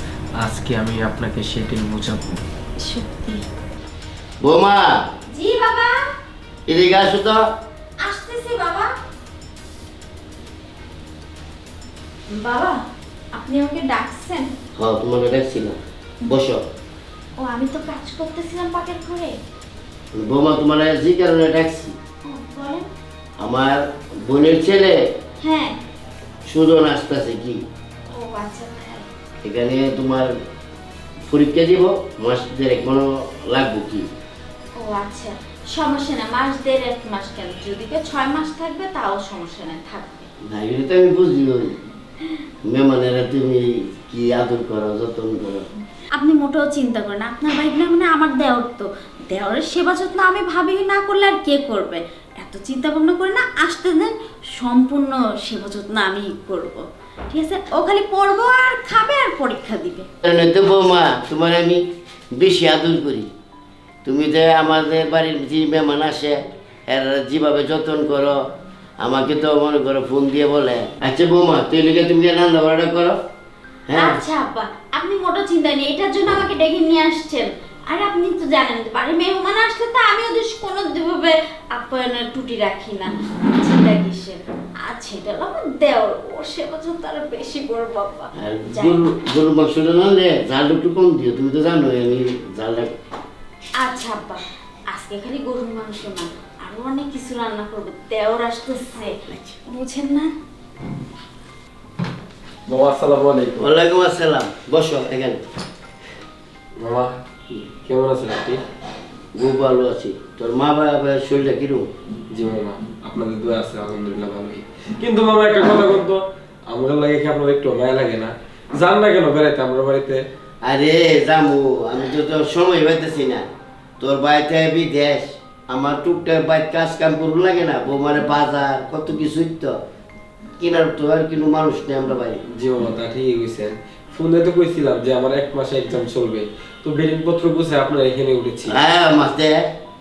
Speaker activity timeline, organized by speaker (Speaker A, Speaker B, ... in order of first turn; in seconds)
Speaker A: 0.4-2.4, 102.7-103.6, 106.8-107.1, 107.7-108.6, 112.3-120.2, 132.5-138.8
Speaker B: 2.8-3.4, 5.3-6.0, 8.0-8.9, 12.3-12.8, 13.3-14.5, 17.4-19.4, 22.2-22.9, 25.4-25.8, 28.1-29.1, 34.8-40.3, 46.1-60.1, 74.0-89.0, 93.8-100.3
Speaker C: 4.4-4.9, 6.7-7.4, 14.8-16.6, 20.1-21.9, 23.4-25.0, 26.4-27.6, 29.4-30.3, 31.2-34.1, 40.5-41.8, 42.6-45.7, 60.2-61.8, 62.3-63.3, 64.0-68.4, 69.0-73.2, 73.9-74.2, 88.4-92.9, 103.5-105.4, 109.3-111.9, 120.6-123.5, 124.0-129.8, 130.6-132.4, 138.7-139.6